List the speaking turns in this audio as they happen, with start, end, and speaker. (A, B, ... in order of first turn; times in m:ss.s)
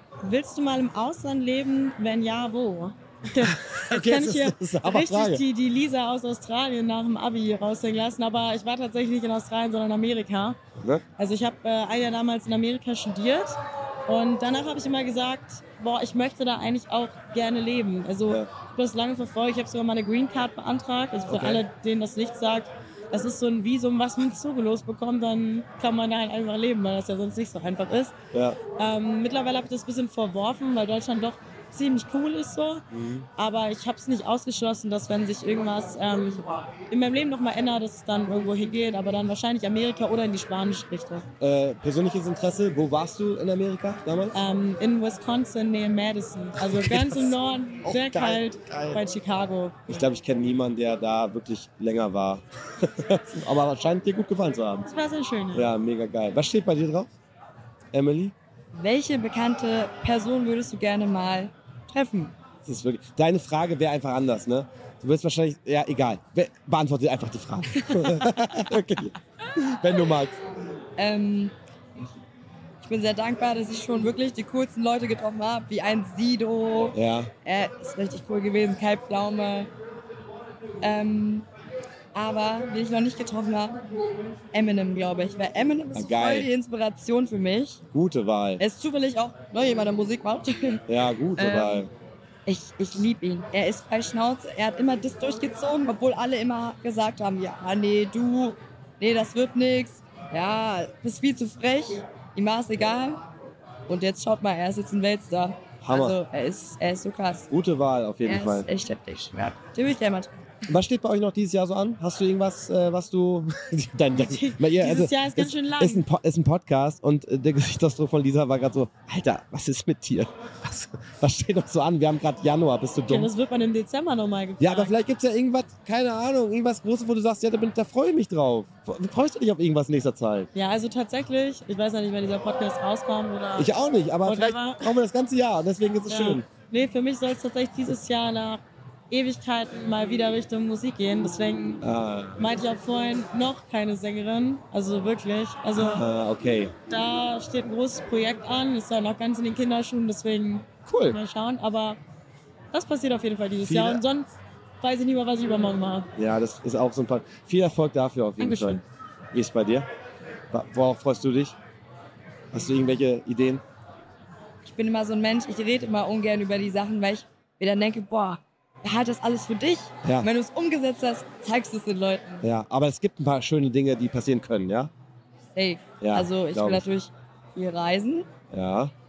0:00.2-0:10.6 A
0:03.4-0:05.4 B
0:10.8-0:11.0 B
0:11.2-0:28.1 A
0:21.3-0:21.7 B
0:28.3-0:28.6 B
0:28.8-0:32.8 A
0:32.9-0:33.3 B
0:33.4-0:41.3 A
0:41.4-0:44.4 B
0:44.3-0:50.0 A
0:46.6-0:49.0 B
0:49.9-0:54.9 B
0:54.8-0:55.7 A
0:55.5-0:57.1 B
0:57.9-0:58.3 B
0:58.7-1:02.3 C
1:02.6-1:10.4 B
1:07.9-1:08.3 C
1:11.0-1:11.5 C
1:12.8-1:19.7 C
1:16.9-1:17.3 B
1:20.8-1:21.5 C
1:22.1-1:23.8 C
1:24.5-1:27.8 C
1:25.9-1:26.5 B
1:27.9-1:28.6 B
1:28.6-1:30.8 C
1:30.9-1:31.9 B
1:31.4-1:31.9 C
1:32.5-1:43.2 C
1:43.9-1:47.5 C
1:45.8-1:46.2 B
1:47.5-1:48.7 B
1:48.2-1:50.3 C
1:50.7-2:03.3 B
1:54.1-1:56.0 A
2:03.1-2:04.9 A
2:04.6-2:10.5 B
2:10.6-2:13.7 A
2:13.6-2:16.5 B
2:14.2-2:14.9 A
2:16.1-2:26.1 A
2:21.8-2:22.5 B
2:25.7-2:26.7 B
2:26.9-2:32.0 A
2:30.9-2:31.2 B
2:32.7-2:34.3 A
2:33.6-2:34.0 B
2:34.8-2:36.1 A
2:36.2-2:38.8 B
2:38.4-2:38.8 A
2:39.3-2:39.9 B
2:40.5-2:41.6 B
2:42.5-2:43.6 B
2:44.6-2:52.4 C
2:52.4-2:54.9 B
2:55.6-2:58.3 C
2:56.0-2:56.8 B
2:58.5-2:58.9 B